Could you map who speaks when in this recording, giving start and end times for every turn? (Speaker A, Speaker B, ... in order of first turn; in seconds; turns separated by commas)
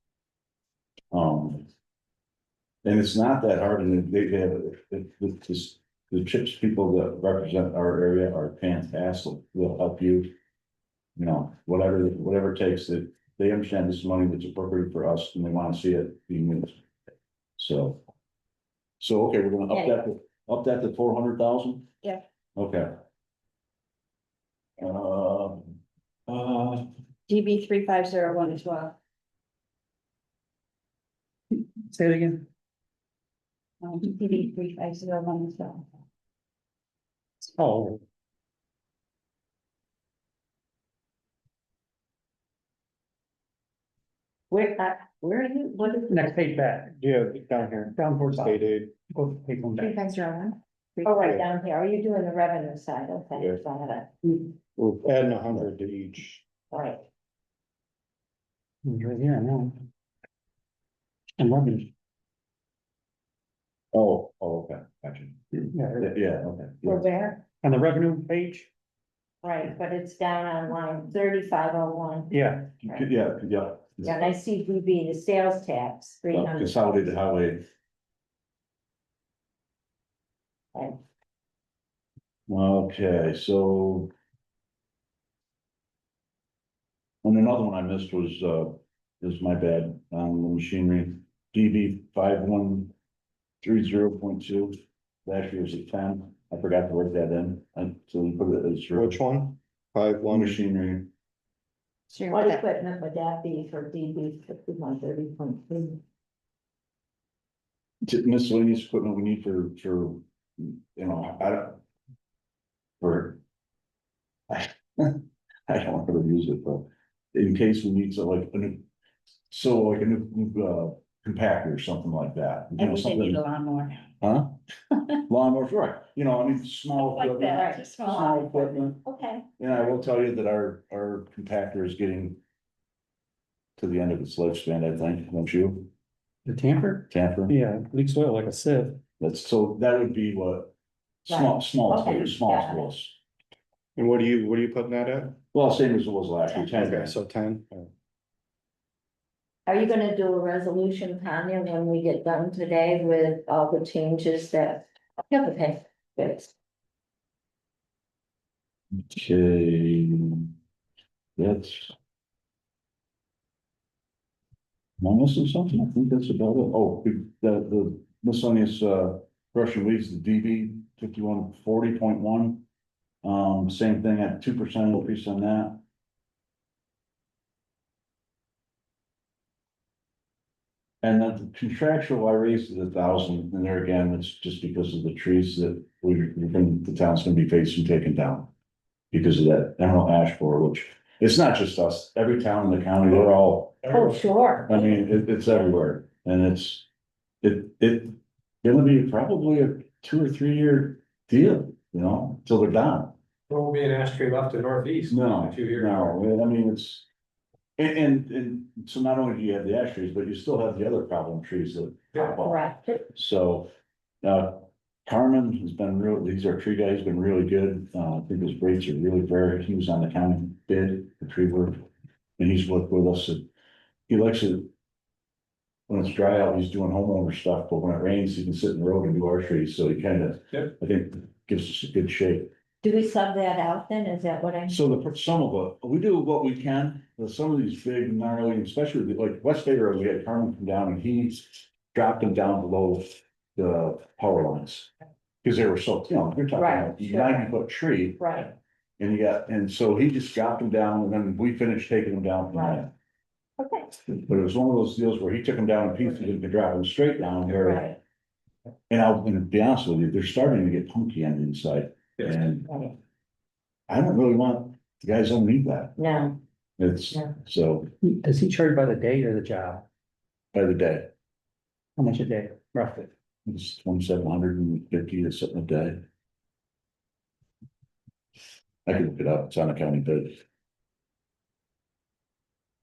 Speaker A: 1.1-1.6, Speaker A: 2.8-10.3, Speaker A: 11.2-16.8, Speaker A: 17.6-18.0, Speaker A: 19.0-21.8, Speaker B: 19.7-20.0, Speaker A: 22.6-22.9, Speaker A: 24.8-26.9, Speaker C: 27.3-28.9, Speaker D: 31.8-32.5, Speaker C: 33.8-35.8, Speaker D: 37.4-38.0, Speaker B: 44.5-46.4, Speaker D: 46.1-47.0, Speaker E: 47.0-48.9, Speaker D: 48.0-49.9, Speaker C: 49.8-51.3, Speaker B: 51.0-54.1, Speaker E: 54.8-56.4, Speaker B: 56.7-57.0, Speaker D: 58.8-59.8, Speaker D: 61.4-61.9, Speaker A: 63.9-65.4, Speaker D: 65.7-66.1, Speaker A: 66.0-67.1, Speaker B: 66.8-67.4, Speaker D: 67.6-68.7, Speaker B: 69.4-73.1, Speaker D: 72.3-72.7, Speaker A: 72.8-74.3, Speaker B: 74.0-77.0, Speaker A: 76.3-77.6, Speaker A: 82.5-84.1, Speaker A: 87.2-92.9, Speaker A: 93.6-99.2, Speaker E: 98.9-100.6, Speaker A: 100.3-101.1, Speaker C: 102.1-102.6, Speaker B: 102.3-106.0, Speaker A: 108.0-111.8, Speaker A: 113.0-113.4, Speaker A: 114.5-118.8, Speaker A: 119.5-123.4, Speaker C: 122.8-124.1, Speaker A: 124.2-124.6, Speaker A: 125.2-129.0, Speaker C: 127.0-128.5, Speaker B: 127.5-129.4, Speaker A: 129.6-132.4, Speaker A: 133.8-135.9, Speaker D: 136.4-139.0, Speaker A: 137.1-137.6, Speaker A: 139.2-140.7, Speaker A: 141.2-143.2, Speaker B: 141.3-142.9, Speaker E: 143.9-145.4, Speaker A: 145.5-147.2, Speaker E: 146.6-147.9, Speaker B: 149.7-156.5, Speaker A: 158.9-160.5, Speaker A: 161.4-161.9, Speaker A: 165.0-172.6, Speaker A: 173.2-175.8, Speaker A: 181.0-188.5, Speaker A: 189.1-194.0, Speaker F: 193.8-194.1, Speaker B: 193.9-195.0, Speaker A: 194.7-196.8, Speaker A: 197.4-203.1, Speaker F: 203.5-206.2, Speaker A: 205.1-207.1, Speaker A: 207.8-213.7, Speaker B: 212.4-213.0, Speaker A: 214.2-221.8, Speaker A: 222.4-223.4, Speaker A: 224.1-224.7, Speaker A: 225.9-232.5, Speaker B: 232.8-234.9, Speaker A: 234.7-244.9, Speaker A: 245.4-248.4, Speaker B: 246.5-247.5, Speaker B: 248.2-248.5, Speaker A: 249.0-252.9, Speaker B: 252.5-252.8, Speaker B: 253.6-253.9, Speaker A: 254.1-257.9, Speaker B: 257.6-258.0, Speaker A: 258.9-262.7, Speaker B: 262.6-262.9, Speaker A: 263.9-266.2, Speaker B: 266.0-266.4, Speaker A: 266.8-267.9, Speaker D: 268.0-269.8, Speaker A: 270.5-271.1, Speaker D: 272.0-273.1, Speaker A: 273.4-276.0, Speaker A: 278.9-280.4